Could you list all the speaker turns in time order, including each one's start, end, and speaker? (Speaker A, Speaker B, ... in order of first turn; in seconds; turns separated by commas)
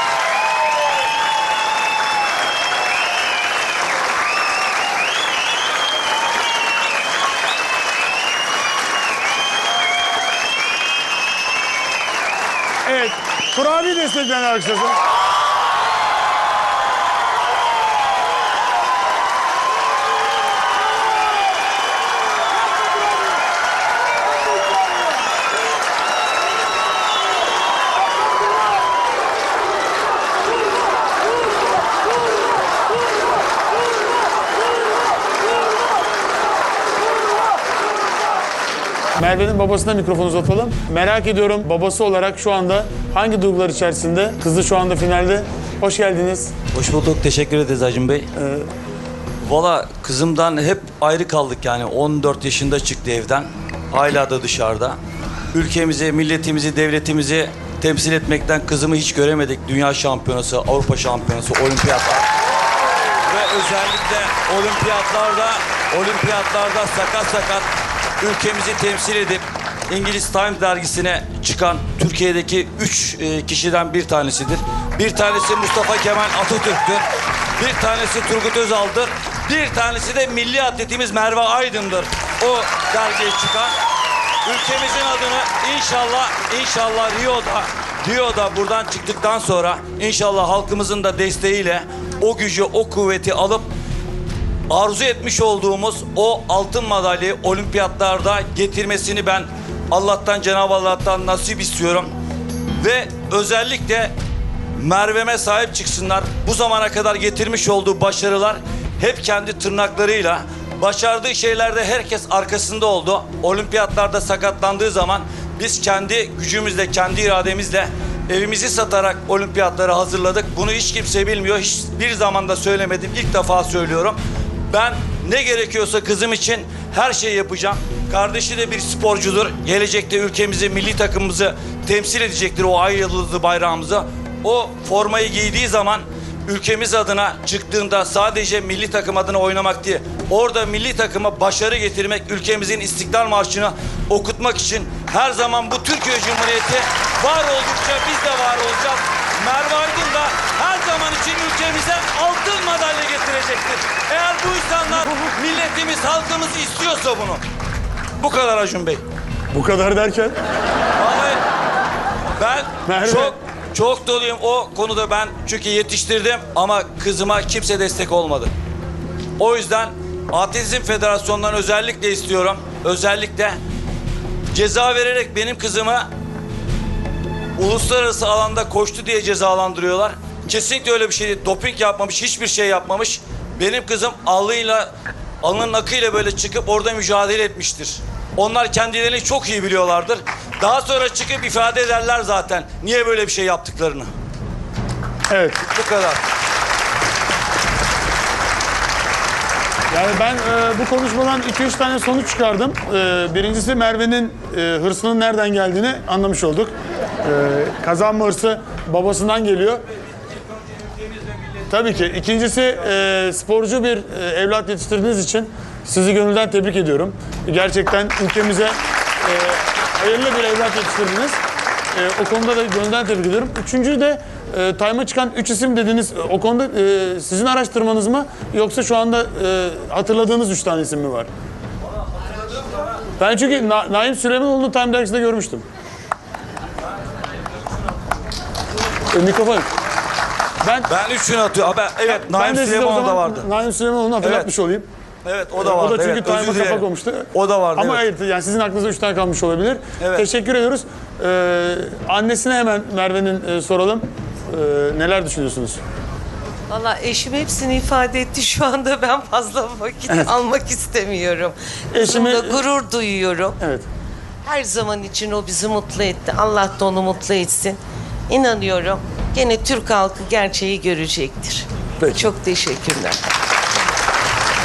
Speaker A: 12.8-15.0, Speaker A: 39.2-46.5, Speaker B: 46.7-48.3, Speaker A: 48.4-48.7, Speaker B: 49.4-55.0, Speaker B: 55.5-62.3, Speaker B: 63.3-67.7, Speaker B: 68.2-77.1, Speaker B: 77.6-83.8, Speaker B: 84.5-93.7, Speaker B: 94.7-102.1, Speaker B: 102.8-104.1, Speaker B: 104.8-124.2, Speaker B: 124.7-157.4, Speaker B: 158.2-159.0, Speaker A: 159.5-160.3, Speaker B: 161.0-161.4, Speaker B: 162.4-168.5, Speaker A: 162.8-163.4, Speaker B: 169.4-173.6, Speaker B: 174.5-176.1, Speaker B: 177.6-184.9, Speaker B: 185.4-194.1, Speaker A: 195.3-195.6, Speaker B: 195.7-196.2, Speaker A: 199.9-209.8, Speaker A: 211.7-221.4, Speaker A: 221.9-231.3, Speaker A: 233.2-235.7, Speaker A: 239.1-239.7, Speaker A: 240.6-240.9, Speaker B: 240.9-243.5, Speaker A: 242.1-244.9, Speaker B: 244.2-244.5, Speaker B: 245.2-248.0, Speaker A: 245.6-255.8, Speaker B: 250.0-250.2, Speaker C: 256.7-259.9, Speaker C: 260.5-261.5, Speaker A: 261.9-262.6, Speaker A: 263.6-263.9, Speaker C: 264.6-265.9, Speaker C: 266.7-267.7, Speaker C: 269.9-271.4